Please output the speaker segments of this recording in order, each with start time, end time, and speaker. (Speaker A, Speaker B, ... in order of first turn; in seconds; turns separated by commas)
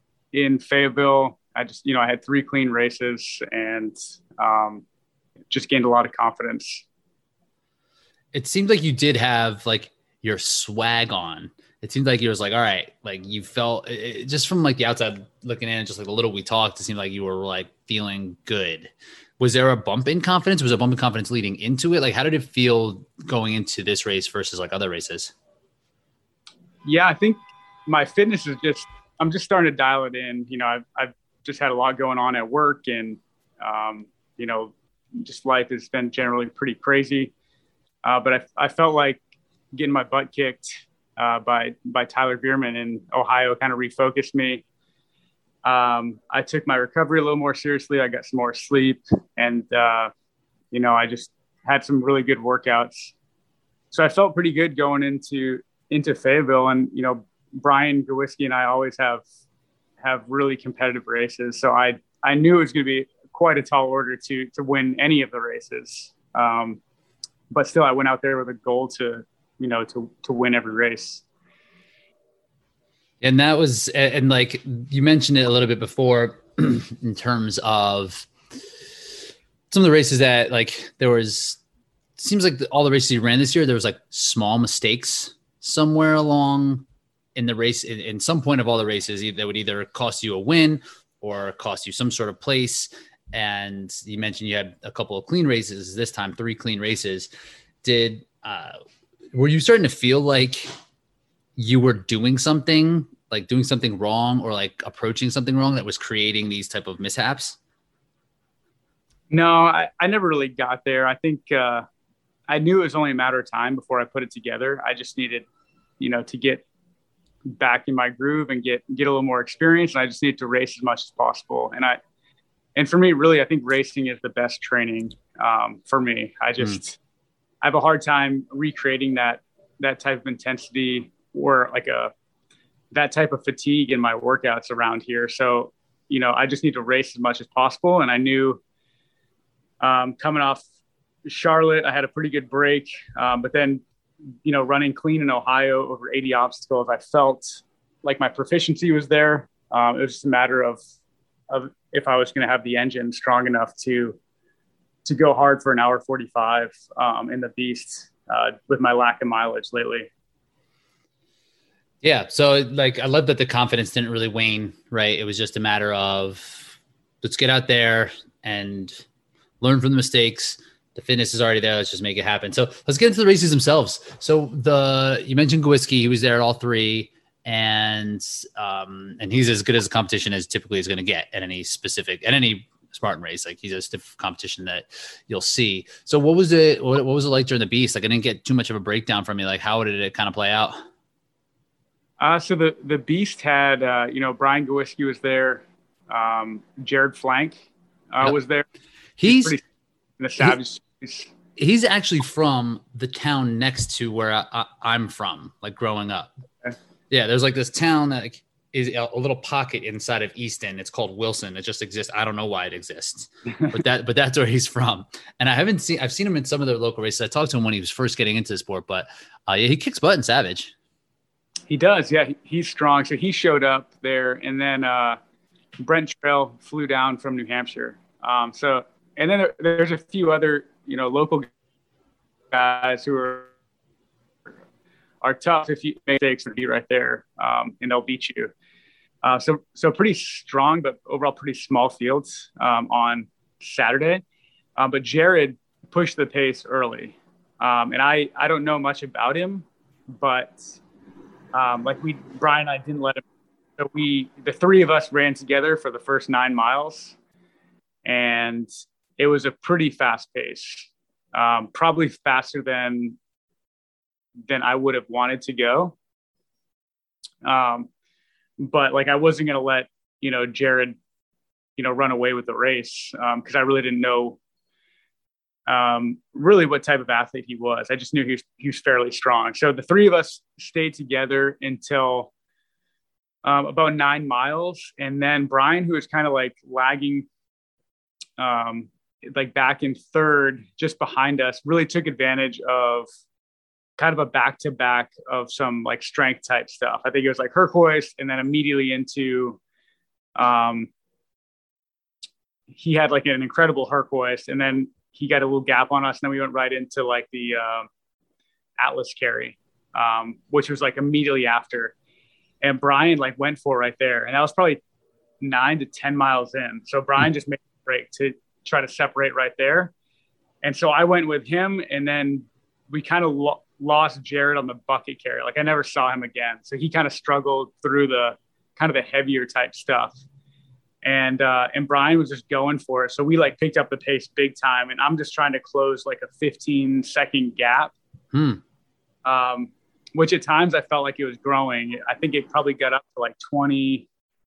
Speaker A: 0.3-4.8, Speaker A: 5.5-6.8, Speaker B: 8.3-25.3, Speaker A: 26.9-37.3, Speaker A: 38.0-39.2, Speaker A: 39.7-44.6, Speaker A: 45.6-50.1, Speaker A: 50.7-53.1, Speaker A: 53.9-59.2, Speaker A: 60.0-66.8, Speaker A: 67.5-71.2, Speaker B: 73.2-78.3, Speaker B: 79.7-81.6, Speaker B: 82.2-86.8, Speaker B: 87.3-97.3, Speaker B: 97.8-98.8, Speaker B: 99.3-100.7, Speaker B: 101.6-107.6, Speaker A: 109.3-111.8, Speaker A: 112.5-115.5, Speaker A: 116.0-116.6, Speaker A: 117.5-122.0, Speaker A: 122.8-127.0, Speaker A: 127.6-132.1, Speaker A: 132.9-138.6, Speaker A: 139.8-140.6, Speaker A: 141.3-143.8, Speaker A: 144.4-150.8, Speaker A: 151.5-154.2, Speaker A: 155.1-160.1, Speaker B: 162.0-169.0, Speaker B: 169.6-190.8, Speaker A: 192.2-197.6, Speaker A: 198.1-198.7, Speaker B: 199.2-199.6, Speaker A: 199.2-199.6, Speaker A: 200.2-201.3, Speaker B: 201.6-206.3, Speaker B: 207.1-220.7, Speaker A: 221.7-225.2, Speaker A: 225.8-231.5, Speaker A: 232.5-233.5, Speaker A: 235.2-238.5, Speaker A: 239.2-244.2, Speaker A: 244.8-250.7, Speaker A: 251.5-253.2, Speaker A: 253.8-257.1, Speaker A: 258.0-263.2, Speaker A: 264.5-265.9, Speaker A: 267.4-267.9, Speaker A: 268.6-271.0, Speaker A: 271.8-274.4, Speaker A: 275.7-282.3, Speaker A: 283.4-287.3, Speaker A: 288.4-293.1, Speaker A: 294.0-299.6, Speaker A: 300.4-300.9, Speaker A: 302.7-307.9, Speaker A: 308.8-311.9, Speaker A: 312.6-314.8, Speaker A: 315.4-319.9, Speaker A: 320.6-330.1, Speaker A: 331.0-337.9, Speaker B: 338.3-338.6, Speaker A: 339.2-344.1